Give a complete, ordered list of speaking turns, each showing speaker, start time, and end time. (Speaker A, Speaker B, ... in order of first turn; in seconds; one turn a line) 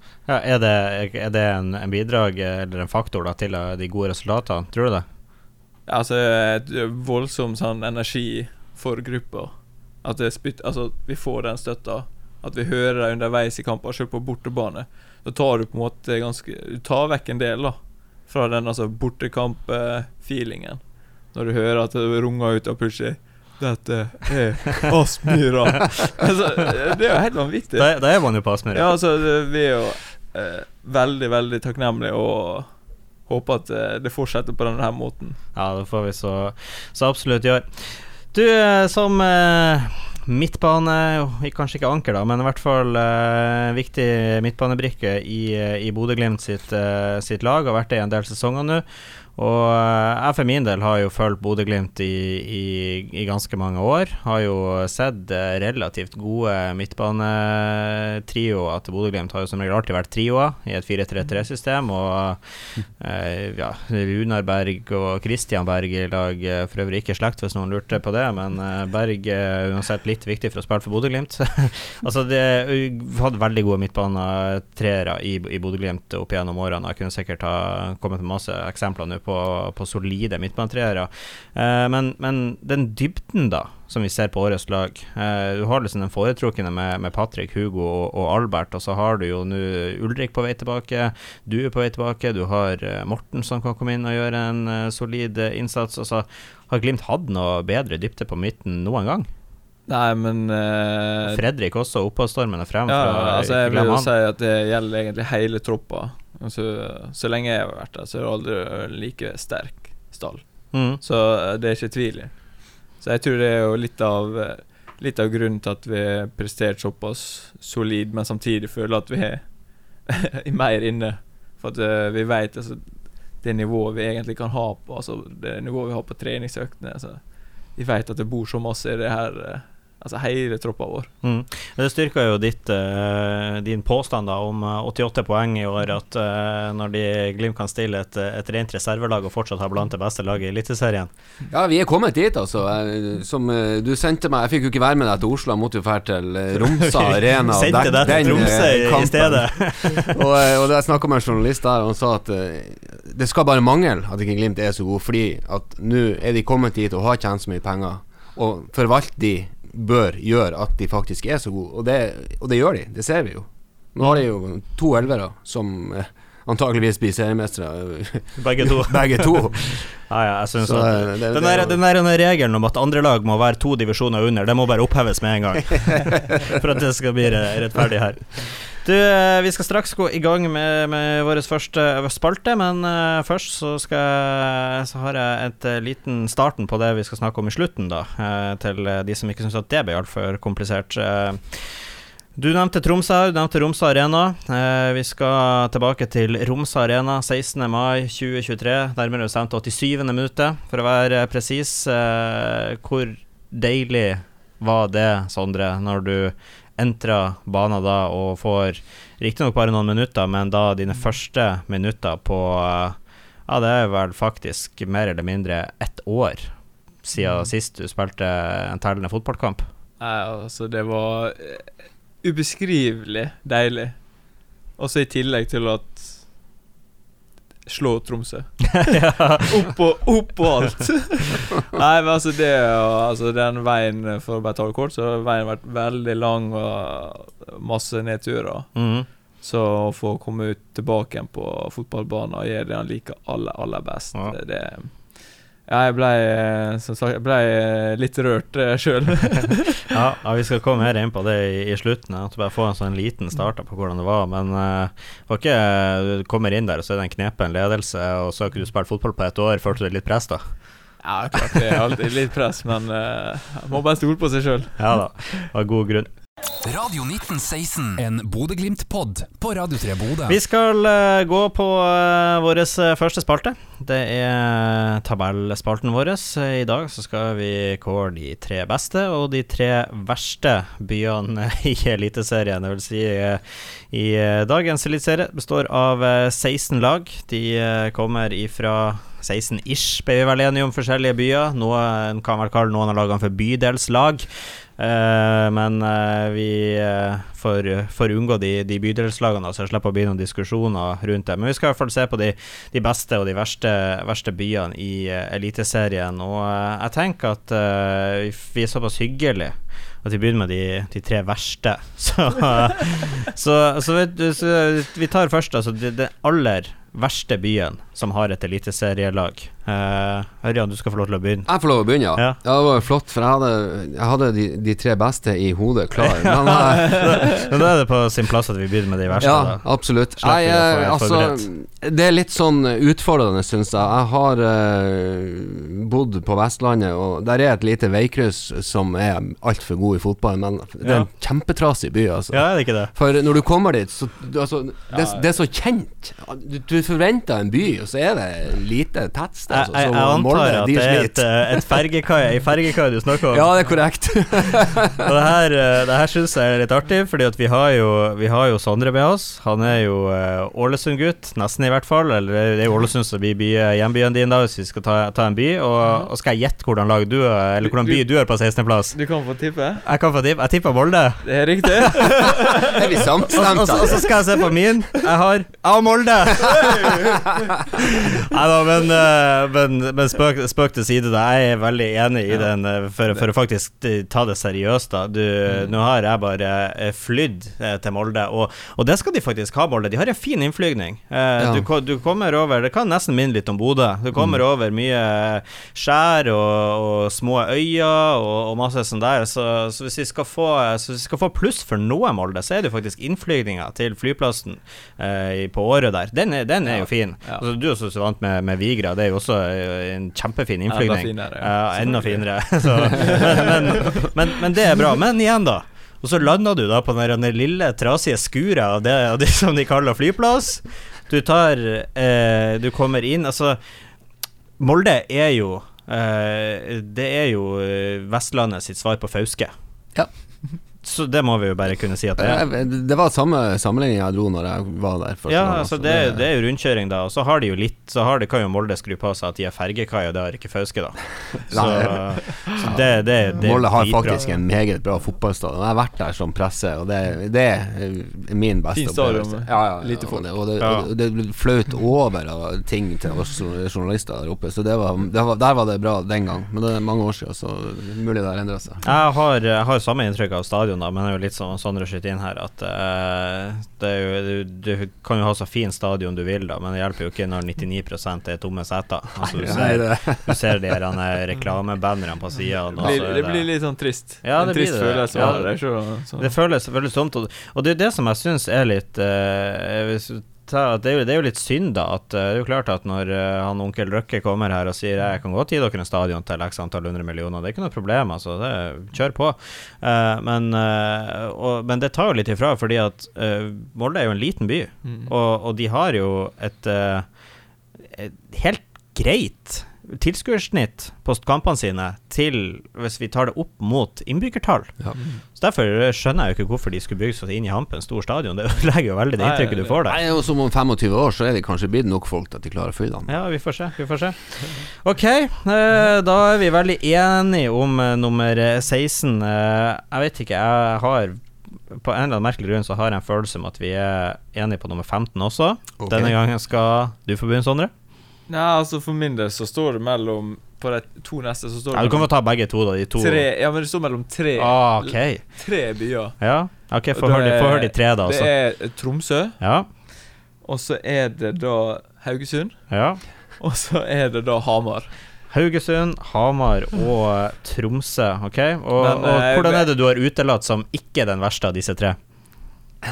Speaker A: 0.3-5.0
Speaker B: 5.9-27.9
Speaker A: 27.8-28.9
Speaker B: 28.7-32.7
Speaker B: 33.3-35.4
Speaker A: 35.5-99.3
Speaker B: 99.9-101.4
Speaker A: 101.2-104.1
Speaker B: 102.9-131.1
Speaker A: 110.7-111.0
Speaker A: 131.2-141.1
Speaker C: 141.5-169.9
Speaker A: 146.6-150.2
Speaker A: 168.4-219.7
Speaker C: 170.6-171.8
Speaker B: 217.2-217.4
Speaker B: 220.0-224.0
Speaker B: 224.8-226.3
Speaker B: 227.7-228.9
Speaker A: 228.7-229.7
Speaker B: 229.4-249.8
Speaker A: 238.7-239.1
Speaker A: 249.9-260.6
Speaker B: 261.0-264.8
Speaker A: 264.8-266.1
Speaker D: 266.6-270.4
Speaker A: 270.3-321.5
Speaker C: 321.4-327.4
Speaker A: 322.1-322.4
Speaker A: 325.9-331.4
Speaker C: 329.2-351.8
Speaker A: 340.8-341.1
Speaker A: 342.3-342.9
Speaker B: 344.9-345.2
Speaker A: 349.5-353.6
Speaker C: 353.3-355.1
Speaker A: 355.0-369.0
Speaker B: 367.6-368.0
Speaker B: 368.9-369.8
Speaker A: 369.8-372.4
Speaker B: 371.2-372.8
Speaker C: 372.5-374.2
Speaker A: 373.3-377.2
Speaker B: 376.6-377.1
Speaker A: 377.7-423.6
Speaker C: 391.4-391.7
Speaker B: 406.6-407.4
Speaker B: 410.7-414.1
Speaker A: 424.6-429.5
Speaker A: 430.8-432.4
Speaker C: 432.2-436.2
Speaker A: 435.3-444.3
Speaker C: 441.5-458.8
Speaker B: 448.7-450.3
Speaker A: 450.6-450.9
Speaker A: 458.8-473.5
Speaker C: 469.2-470.8
Speaker B: 472.8-476.3
Speaker A: 474.2-497.2
Speaker B: 494.8-495.1
Speaker A: 497.8-510.0
Speaker B: 504.9-505.2
Speaker B: 509.2-509.8
Speaker C: 509.8-513.1
Speaker A: 513.1-527.7
Speaker C: 525.8-526.1
Speaker B: 528.3-532.1
Speaker A: 531.7-533.2
Speaker B: 533.0-536.3
Speaker A: 534.4-535.6
Speaker A: 536.2-538.4
Speaker B: 536.9-539.4
Speaker A: 539.4-539.7
Speaker B: 540.4-544.9
Speaker A: 542.7-543.0
Speaker A: 545.3-552.0
Speaker B: 548.8-549.7